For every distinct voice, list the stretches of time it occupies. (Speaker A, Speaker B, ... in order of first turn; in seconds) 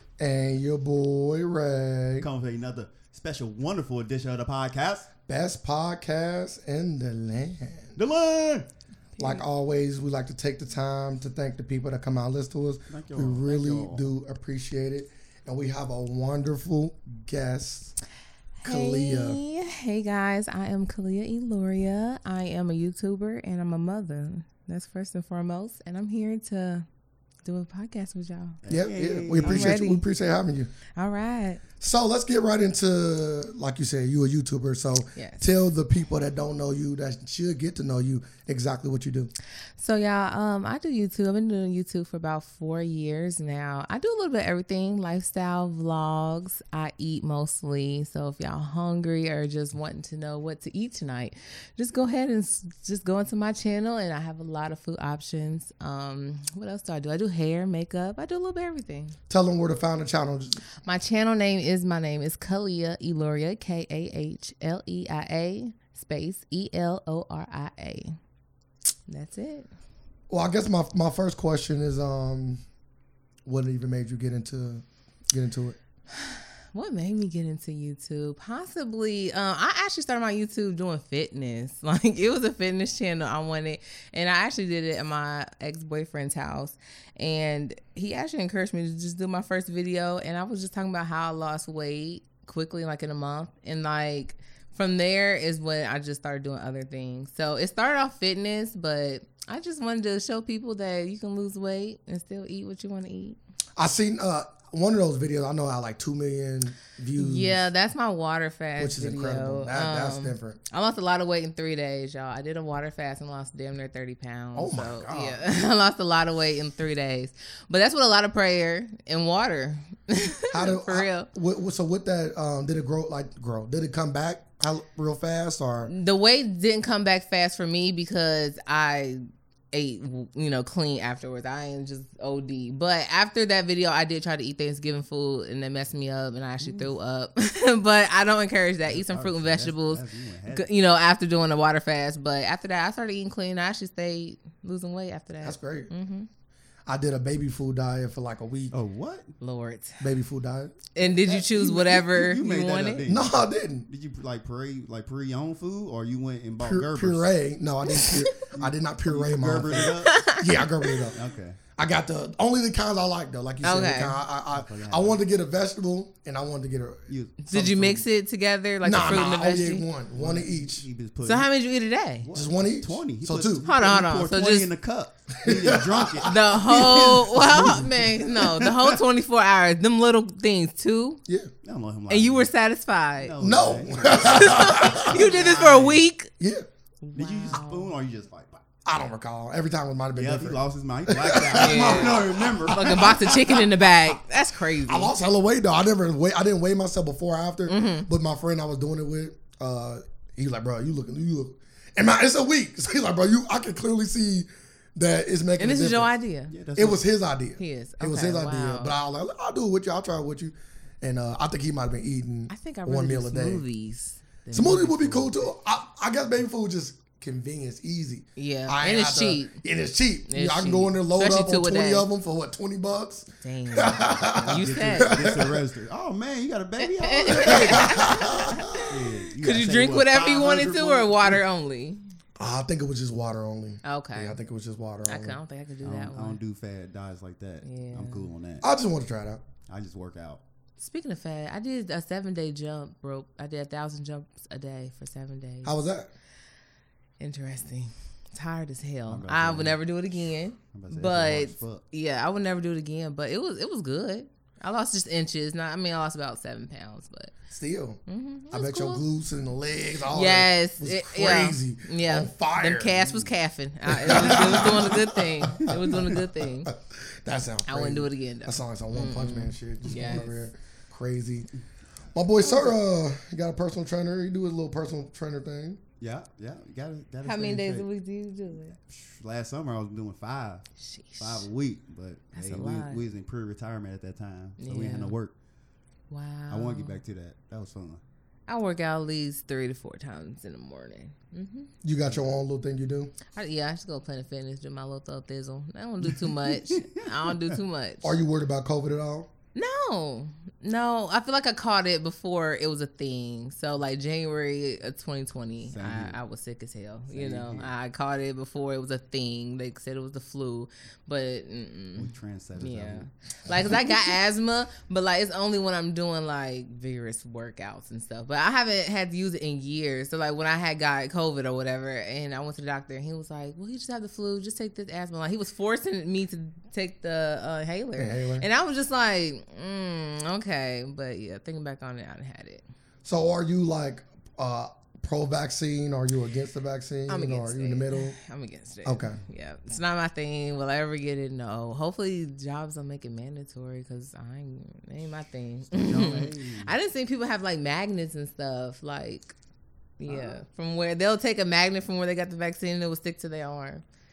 Speaker A: 0.2-2.3, 5.3-8.0, 9.2-17.9, 18.6-19.4, 28.7-30.7, 31.8-39.3, 59.3-60.6, 70.3-72.6, 73.4-75.8, 103.8-107.7, 108.8-110.6, 114.5-115.4, 120.5-125.9, 145.4-145.9, 146.9-148.7, 150.0-150.8, 153.0-153.9, 156.6-161.2, 161.8-167.0, 168.8-170.8, 172.3-173.7, 175.4-176.3, 183.4-185.5, 186.4-186.7, 188.8-193.2, 194.8-206.1, 206.7-213.6, 214.5-225.6, 227.3-228.8, 232.4-235.4, 238.6-239.4, 245.6-246.1, 257.5-258.0, 258.5-263.0, 263.9-266.1, 266.7-271.5, 272.1-275.8, 291.8-293.1, 298.0-299.3, 327.9-328.4, 333.0-338.2, 338.8-339.2
Speaker B: 2.2-5.1, 8.0-8.7, 12.9-14.1, 28.6-29.7, 136.6-136.9, 138.9-140.7, 148.7-149.3, 151.0-153.3, 153.9-157.3, 158.5-160.2, 161.1-161.6, 164.5-165.2, 167.1-168.0, 170.1-171.5, 172.2-179.0, 181.6-182.5, 183.2-186.0, 187.2-188.6, 190.1-193.7, 206.5-207.0, 224.4-231.4, 235.8-238.6, 239.7-240.4, 249.1-249.8, 250.7-251.8, 263.0-263.3, 269.9-270.2, 276.0-277.9, 278.9-280.7, 281.2-285.3, 286.5-288.0, 296.4-297.6, 305.7-306.2, 307.1-307.7, 311.9-313.1, 345.7-346.7
Speaker C: 9.2-9.4, 18.6-26.9, 27.4-28.6, 29.4-30.0, 30.9-31.6, 35.1-35.5, 39.8-59.1, 60.8-68.2, 69.1-69.7, 76.1-103.4, 107.2-121.3, 125.9-146.3, 149.4-150.0, 150.9-153.0, 157.9-158.2, 160.0-161.0, 163.6-164.2, 167.4-169.9, 171.2-172.3, 173.6-174.7, 176.2-181.2, 182.1-183.3, 184.1-186.3, 187.0-187.9, 191.5-195.1, 197.7-198.1, 205.6-206.5, 207.6-208.9, 212.5-215.4, 218.3-219.6, 220.3-222.1, 223.4-225.2, 226.8-232.0, 233.8-234.4, 235.0-236.4, 237.6-238.3, 240.8-245.8, 247.2-257.3, 258.1-259.0, 260.1-266.7, 267.6-270.4, 272.4-272.8, 277.2-278.8, 280.8-281.4, 282.3-283.0, 284.6-285.1, 286.1-287.0, 288.5-291.7, 293.3-298.2, 299.5-332.6, 337.1-349.4, 350.0-353.8